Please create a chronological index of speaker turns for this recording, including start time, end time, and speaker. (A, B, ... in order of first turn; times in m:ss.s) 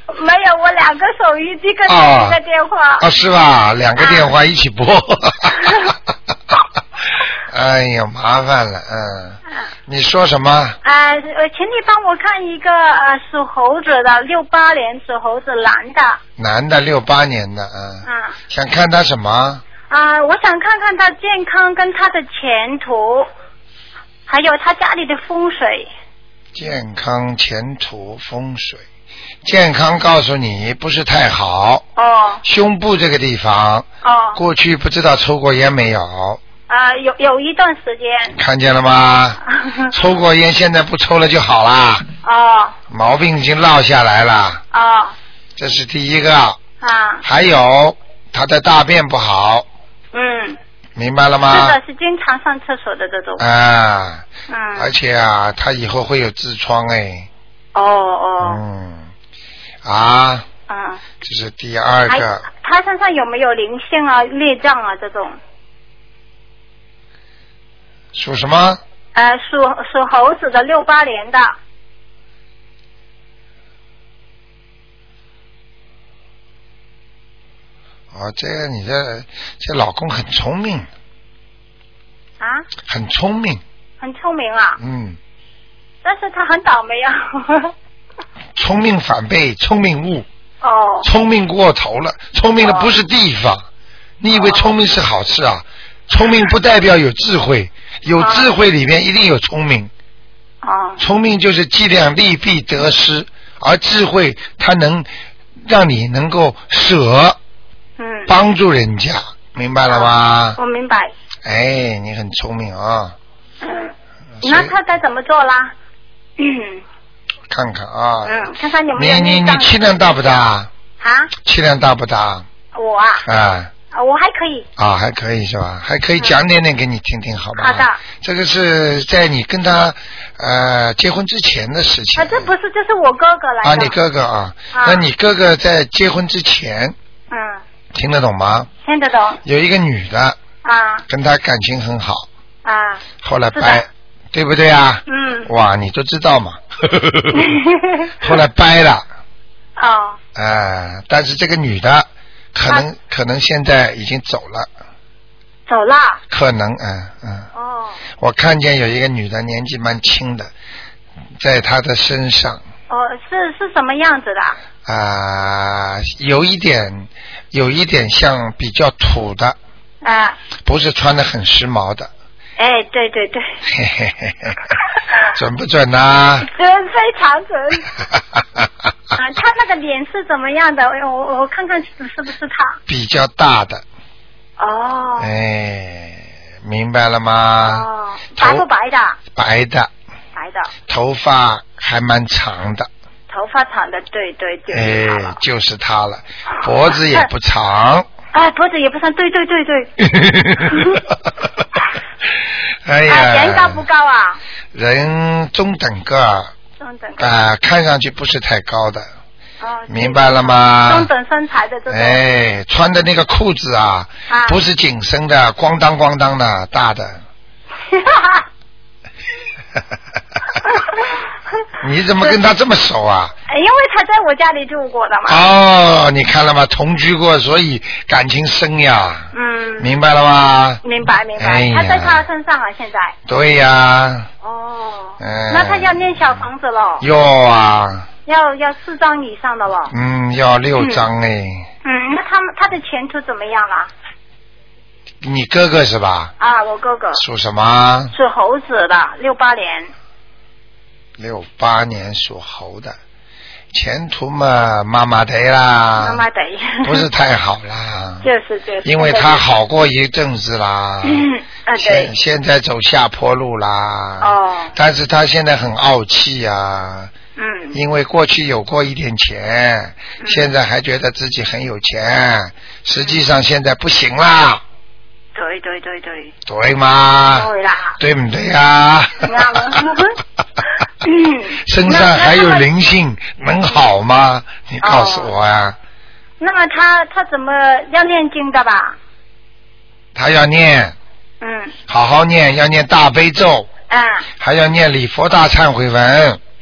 0:00.1-0:03.1 A
0:01.9-0:02.4 B
0:03.0-0:05.9 B
0:04.0-0:04.3 A
0:05.6-0:05.9 A
0:07.5-0:10.8 B
0:10.8-0:16.2 A
0:16.4-0:19.6 B
0:18.0-0:18.4 A
0:19.9-0:23.3 A
0:24.3-0:25.9 A
0:26.6-0:28.8 B
0:29.4-0:31.9 B
0:32.0-0:32.4 A
0:32.4-0:36.4 B
0:34.0-0:34.4 A
0:36.7-0:38.4 A
0:38.4-0:42.1 B
0:39.5-0:39.9 A
0:42.2-0:42.8 A
0:42.9-0:44.6 B
0:44.7-0:45.2 A
0:45.6-0:46.6 B
0:46.8-0:47.2 A
0:47.2-0:49.7 B
0:50.1-0:50.6 A
0:51.0-0:51.8 B
0:51.5-0:53.4 A
0:53.4-0:57.3 B
0:54.5-0:54.9 A
0:57.8-0:58.6 A
0:58.4-0:59.1 B
0:59.8-1:00.5 B
1:00.7-1:01.0 A
1:01.2-1:02.4 B
1:02.1-1:05.4 A
1:08.1-1:08.8 B
1:09.2-1:11.6 A
1:18.1-1:20.9 B
1:22.4-1:22.7 A
1:22.8-1:23.6 B
1:24.0-1:24.8 A
1:24.8-1:25.2 B
1:26.0-1:27.7 A
1:28.6-1:30.3 B
1:30.6-1:31.1 A
1:31.0-1:33.7 B
1:32.6-1:32.9 A
1:34.2-1:39.9 B
1:34.3-1:34.7 A
1:38.2-1:38.5 A
1:40.6-1:41.0 A
1:41.0-1:47.4 B
1:48.0-1:48.3 A
1:48.3-1:50.6 B
1:49.9-1:51.1 A
1:51.4-1:53.2 B
1:53.6-1:55.7 A
1:54.4-1:54.7 B
1:56.4-1:56.8 A
1:57.5-2:00.7 B
1:58.2-2:00.2 A
2:01.0-2:01.3 A
2:01.4-2:02.5 B
2:02.8-2:03.2 A
2:03.2-2:03.7 B
2:03.9-2:04.7 A
2:04.8-2:12.5 B
2:07.6-2:08.0 A
2:12.2-2:14.0 A
2:13.6-2:17.0 B
2:14.7-2:15.1 A
2:17.3-2:17.6 A
2:17.9-2:18.7 B
2:18.8-2:19.4 A
2:19.4-2:20.4 B
2:20.6-2:21.0 A
2:21.1-2:22.3 B
2:22.6-2:23.9 A
2:23.2-2:27.4 B
2:25.1-2:25.5 A
2:27.3-2:28.3 A
2:28.2-2:29.1 B
2:29.8-2:30.2 A
2:30.4-2:34.7 B
2:35.7-2:36.2 A
2:36.3-2:37.5 B
2:37.5-2:38.0 A
2:38.2-2:40.5 B
2:41.4-2:42.6 B
2:42.9-2:44.6 A
2:44.9-2:49.6 B
2:50.0-2:50.4 A
2:50.6-2:52.1 B
2:52.6-2:53.6 A
2:53.7-2:54.6 B
2:55.3-2:56.5 B
2:56.4-2:57.9 A
2:59.1-3:02.8 A
3:02.9-3:03.8 B
3:04.6-3:05.3 A
3:05.2-3:08.7 B
3:07.6-3:09.2 A
3:09.3-3:09.9 B
3:10.4-3:10.7 A
3:10.9-3:12.9 B
3:13.3-3:15.4 A
3:14.7-3:18.1 B
3:16.6-3:17.3 A
3:18.3-3:19.9 A
3:20.0-3:21.0 B
3:20.6-3:21.0 A
3:22.8-3:23.8 B
3:23.1-3:24.4 A
3:24.7-3:26.5 B
3:26.8-3:27.3 A
3:27.2-3:29.1 B
3:29.6-3:32.2 A
3:29.9-3:31.1 B
3:31.9-3:37.2 B
3:34.3-3:34.6 A
3:37.9-3:38.4 A
3:40.6-3:41.2 A
3:41.8-3:43.4 B
3:43.5-3:45.4 A
3:45.3-3:50.8 B
3:49.3-3:49.9 A
3:50.8-3:53.2 A
3:51.4-3:52.2 B
3:53.3-3:54.3 B
3:54.4-3:57.1 A
3:55.2-3:56.4 B
3:57.0-3:58.1 B
3:58.3-3:59.9 A
3:59.9-4:01.7 B
4:00.8-4:01.1 A
4:01.8-4:03.9 A
4:05.2-4:06.3 B
4:06.4-4:07.2 A
4:07.2-4:08.1 B
4:08.1-4:09.9 A
4:11.2-4:13.0 B
4:13.7-4:16.2 B
4:16.0-4:17.1 A
4:16.8-4:18.3 B
4:18.2-4:19.4 A
4:18.8-4:27.1 B
4:21.0-4:22.1 A
4:24.2-4:24.8 A
4:27.4-4:27.8 A
4:27.7-4:34.6 B
4:30.2-4:30.5 A
4:35.4-4:36.3 A
4:36.5-4:39.8 B
4:37.3-4:38.0 A
4:39.2-4:40.2 A
4:40.8-4:42.7 A
4:41.7-4:45.8 B
4:44.8-4:45.3 A
4:46.4-4:49.0 A
4:50.2-4:51.0 B
4:51.4-4:51.8 A
4:51.9-4:53.7 B
4:53.9-4:54.3 A
4:54.4-4:56.4 B